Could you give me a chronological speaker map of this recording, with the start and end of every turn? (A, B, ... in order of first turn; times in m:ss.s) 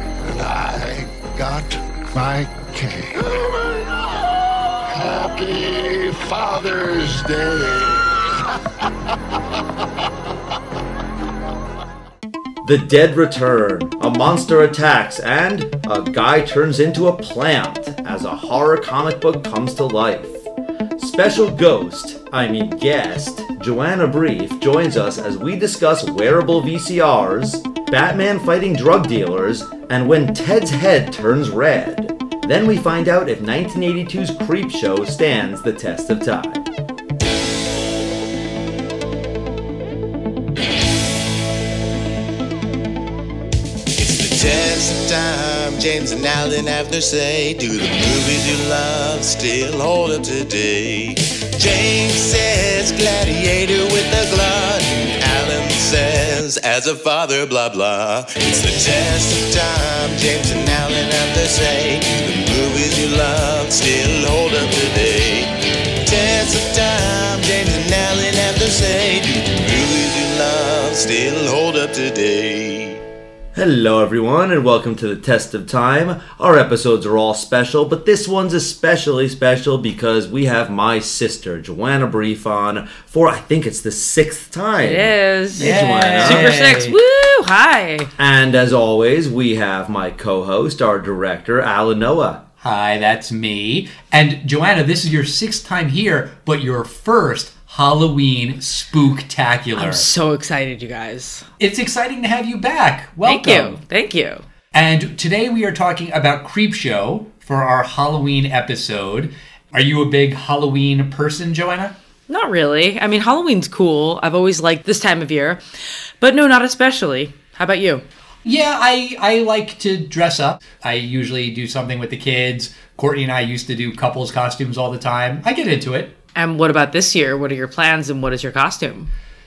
0:00.2-0:04.0 A
0:04.9-0:08.2 A
0:12.6-0:20.4 B
0:21.0-0:36.7 B
0:44.0-1:05.5 C
1:06.0-1:13.0 C
1:13.6-1:26.5 B
1:24.8-1:28.1 D
1:25.6-1:27.0 E
1:28.2-1:32.4 B
1:32.6-1:40.1 E
1:39.8-1:41.5 D
1:41.6-1:43.8 E
1:43.3-1:44.4 D
1:44.7-1:52.0 E
1:52.3-1:55.6 D
1:56.2-1:58.0 D
1:58.4-2:06.1 E
2:06.4-2:09.1 D